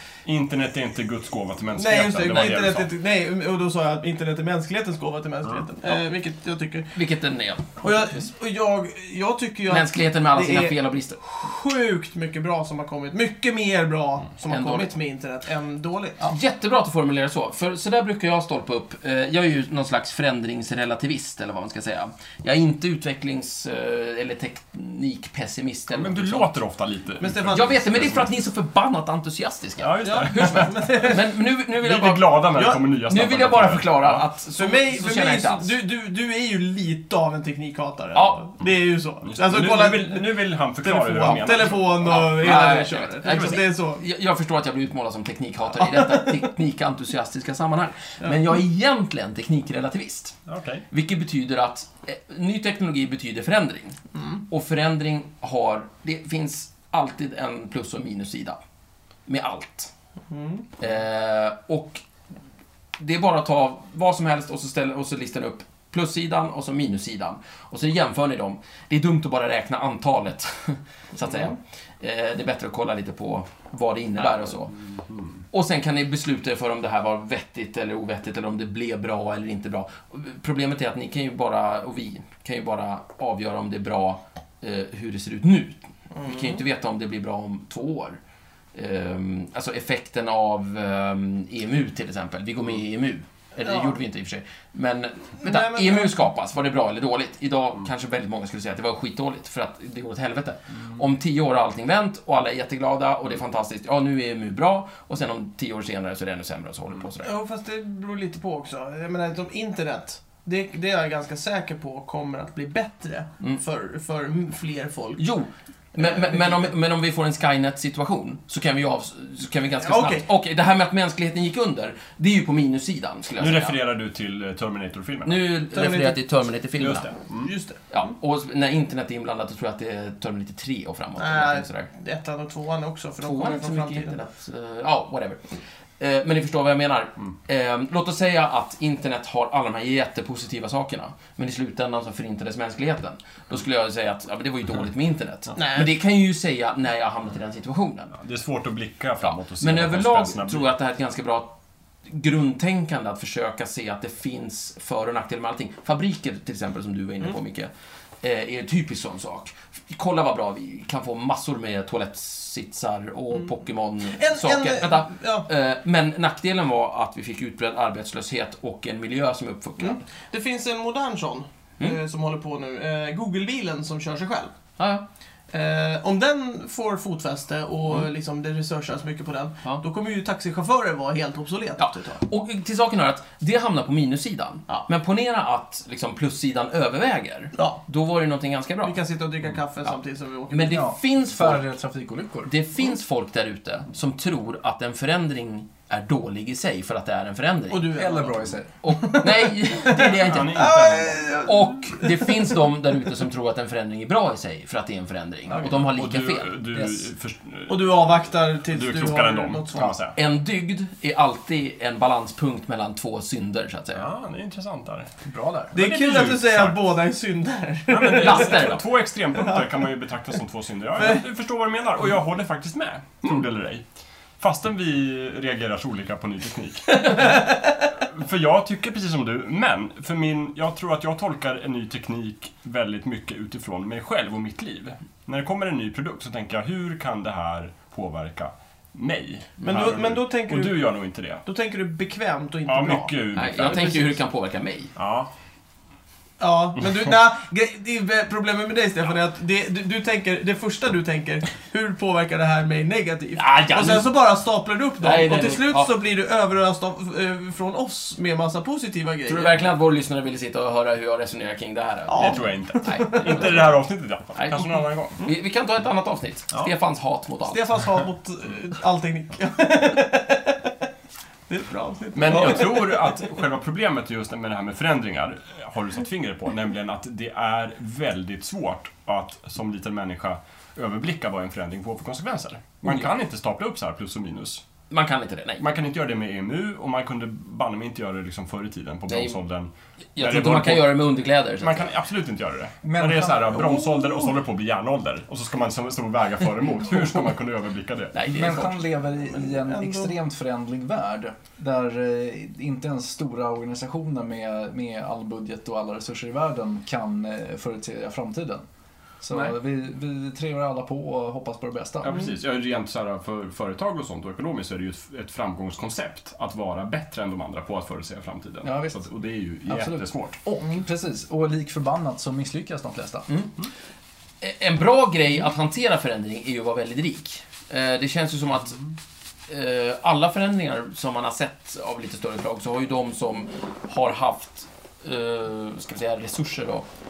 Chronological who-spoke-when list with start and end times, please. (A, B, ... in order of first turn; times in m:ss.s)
0:00.2-0:02.9 A
0:01.7-0:06.9 B
0:06.9-0:07.9 C
0:07.8-0:16.3 B
0:09.7-0:11.2 C
0:14.5-0:14.9 C
0:16.2-0:26.5 C
0:25.9-0:28.3 A
0:27.2-0:27.8 B
0:27.5-0:35.7 C
0:29.8-0:31.2 A
0:30.0-0:31.2 B
0:31.8-0:34.2 A
0:34.6-0:44.0 B
0:38.1-0:38.4 C
0:39.2-0:43.6 A
0:41.9-0:50.3 C
0:45.8-0:46.4 B
0:50.4-0:50.8 A
0:50.9-0:58.6 C
0:54.1-0:54.4 B
0:59.3-0:59.9 C
1:00.3-1:00.7 B
1:00.8-1:02.0 C
1:03.0-1:14.7 C
1:14.8-1:15.3 A
1:15.5-1:28.2 C
1:26.2-1:26.6 B
1:28.7-1:47.3 C
1:33.6-1:34.0 B
1:35.4-1:36.2 B
1:47.2-1:55.2 B
1:55.2-2:03.8 C
1:56.0-1:56.7 B
1:59.8-2:00.2 B
2:03.4-2:05.4 A
2:05.2-2:07.1 C
2:05.7-2:06.2 B
2:06.8-2:07.5 A
2:07.4-2:07.8 B
2:07.9-2:11.9 C
2:11.2-2:14.2 B
2:13.2-2:15.4 C
2:16.0-2:28.1 C
2:25.6-2:25.9 B
2:28.1-2:30.7 A
2:29.2-2:37.7 C
2:38.2-2:50.0 C
2:44.1-2:45.5 B
2:49.8-2:54.5 B
2:54.8-2:55.0 C
2:55.5-3:02.2 B
3:01.8-3:09.0 C
3:07.5-3:07.8 B
3:08.8-3:10.8 B
3:10.5-3:11.6 C
3:10.7-3:12.5 D
3:12.4-3:18.0 C
3:17.7-3:22.6 B
3:17.9-3:18.8 D
3:18.8-3:20.7 C
3:20.1-3:21.4 A
3:21.4-3:26.6 C
3:25.6-3:30.2 A
3:27.7-3:30.0 B
3:30.1-3:34.0 C
3:33.9-3:35.1 A
3:35.2-3:35.7 D
3:35.7-3:36.8 A
3:35.7-3:38.8 B
3:37.9-3:43.8 A
3:38.1-3:38.8 C
3:39.4-3:39.6 B
3:41.0-3:41.2 B
3:44.4-4:01.4 A
3:46.9-3:47.8 B
3:59.6-4:04.0 B
4:02.6-4:04.1 A
4:03.3-4:04.9 C
4:05.0-4:05.3 A
4:06.4-4:19.6 B
4:13.3-4:14.1 C
4:15.0-4:15.9 C
4:19.2-4:23.8 C
4:22.1-4:23.7 B
4:22.2-4:25.2 A
4:24.3-4:27.7 C
4:27.5-4:30.7 B
4:31.5-4:33.2 B
4:32.1-4:44.6 A
4:44.9-4:45.6 C
4:45.6-4:51.0 A
4:49.1-4:49.4 C
4:50.2-4:51.8 C
4:51.6-4:58.1 A
4:52.8-4:53.7 D
4:53.6-4:54.3 B
4:58.1-4:58.8 C
4:58.2-5:08.6 D
4:59.2-5:00.1 B
5:09.2-5:12.2 D
5:12.0-5:20.4 A
5:18.6-5:19.0 D
5:19.6-5:23.2 D
5:24.4-5:28.8 C
5:29.5-5:36.9 C